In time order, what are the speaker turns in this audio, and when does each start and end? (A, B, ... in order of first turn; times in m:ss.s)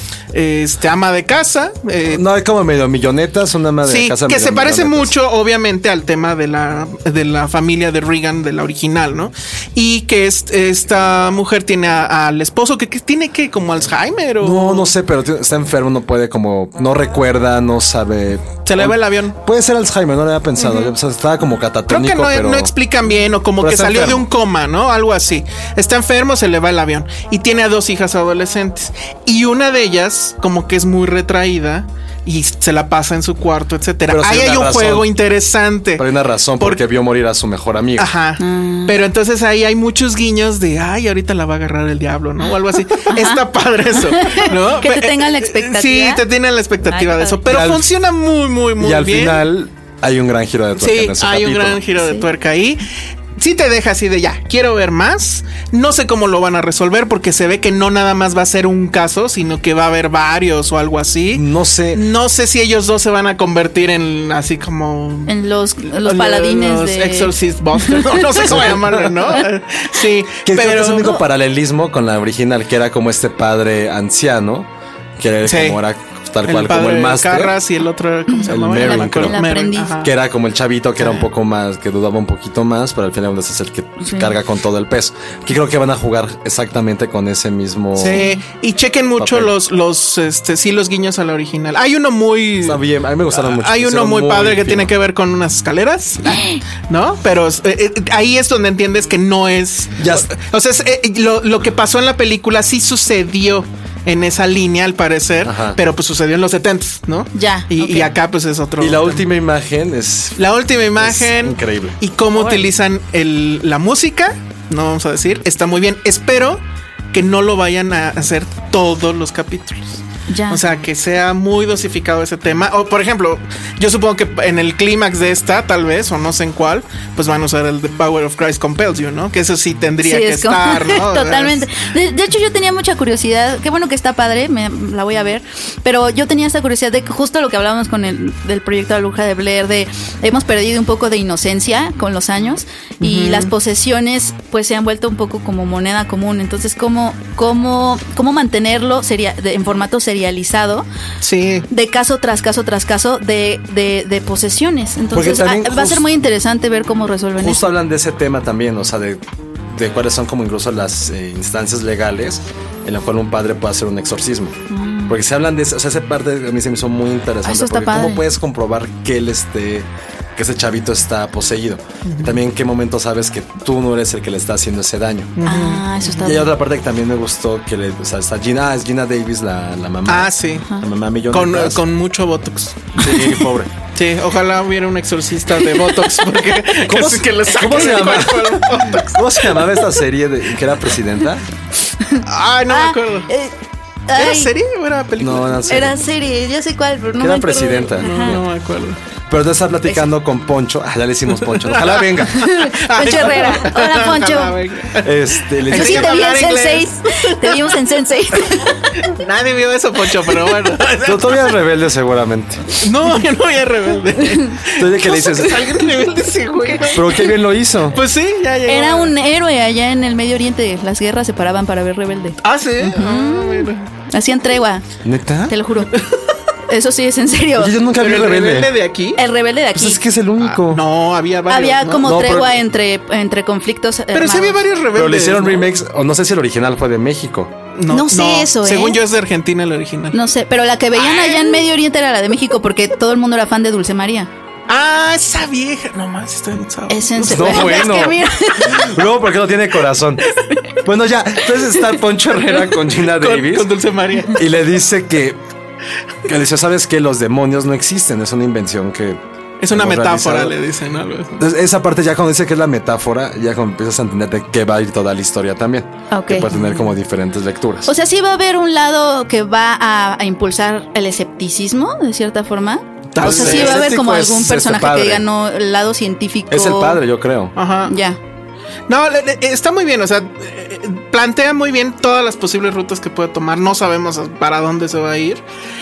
0:00.3-0:02.2 A
0:02.1-0:05.1 B
0:03.8-0:14.9 A
0:14.4-0:22.7 B
0:18.6-0:19.4 A
0:20.6-0:20.9 A
0:21.9-0:36.8 A
0:23.6-0:24.3 B
0:34.1-0:35.1 B
0:36.0-0:38.1 B
0:38.0-0:49.4 A
0:38.4-0:39.0 C
0:43.0-0:46.2 C
0:46.8-0:47.5 C
0:47.4-0:47.9 B
0:48.8-0:51.8 B
0:50.8-0:52.8 A
0:52.0-0:52.3 C
0:53.4-1:05.3 A
1:01.3-1:02.0 B
1:05.3-1:08.2 C
1:05.9-1:11.2 A
1:08.3-1:09.3 B
1:10.4-1:14.7 B
1:15.2-1:17.6 B
1:15.4-1:15.8 A
1:16.4-1:20.1 A
1:18.5-1:19.4 B
1:18.7-1:20.0 C
1:20.0-1:28.2 B
1:21.0-1:21.3 A
1:24.0-1:24.3 C
1:28.0-1:49.3 A
1:28.1-1:28.4 C
1:29.2-1:29.5 B
1:32.6-1:34.9 B
1:36.3-1:36.6 C
1:40.0-1:40.3 B
1:45.4-1:45.8 B
1:47.3-1:48.1 C
1:48.8-1:50.4 B
1:50.4-1:56.6 A
1:51.0-1:52.0 B
1:52.3-1:52.7 C
1:57.1-2:11.7 A
2:00.3-2:00.6 C
2:10.0-2:30.8 C
2:23.0-2:23.5 A
2:31.2-2:31.7 A
2:31.7-2:37.6 C
2:35.1-2:36.0 B
2:37.4-2:55.3 B
2:44.7-2:45.2 C
2:47.4-2:48.2 C
2:52.0-2:52.4 A
2:55.4-2:56.1 A
2:55.4-2:56.5 C
2:56.2-3:01.8 B
3:00.1-3:00.7 A
3:01.3-3:09.8 A
3:03.0-3:03.7 B
3:06.8-3:11.4 B
3:12.0-3:13.5 C
3:12.2-3:13.3 A
3:14.1-3:14.5 C
3:14.1-3:16.0 A
3:15.2-3:16.0 B
3:15.7-3:18.4 C
3:17.2-3:18.4 B
3:18.0-3:19.0 A
3:19.3-3:22.5 B
3:21.5-3:27.8 A
3:22.3-3:24.6 C
3:25.0-3:26.2 B
3:25.7-3:29.0 C
3:28.6-3:31.6 A
3:31.0-3:32.8 B
3:32.8-3:37.4 A
3:34.8-3:35.6 B
3:36.9-3:38.0 B
3:37.9-3:39.1 A
3:38.7-3:44.8 C
3:42.4-3:43.8 A
3:45.0-3:45.5 B
3:45.5-3:46.0 C
3:46.7-3:47.8 C
3:47.6-3:48.8 B
3:48.0-3:49.2 A
3:49.2-3:50.0 C
3:49.7-3:50.8 B
3:50.4-3:52.2 A
3:51.5-3:54.6 C
3:52.0-3:52.6 B
3:54.1-3:55.7 A
3:54.9-3:57.5 B
3:57.7-4:00.2 A
3:57.9-3:59.0 C
4:00.1-4:04.3 C
4:01.0-4:01.6 A
4:04.7-4:08.0 A
4:06.9-4:09.0 C
4:07.2-4:10.3 B
4:10.8-4:13.7 B
4:12.9-4:14.7 A
4:14.3-4:15.4 B
4:16.2-4:20.5 B
4:19.6-4:21.4 A
4:21.4-4:27.9 B
4:26.1-4:26.5 C
4:26.4-4:26.8 A
4:27.8-4:37.0 C
4:33.1-4:33.9 A
4:33.2-4:35.2 B
4:36.5-4:37.5 B
4:37.5-4:37.9 A
4:37.9-4:38.2 C
4:38.9-4:45.4 A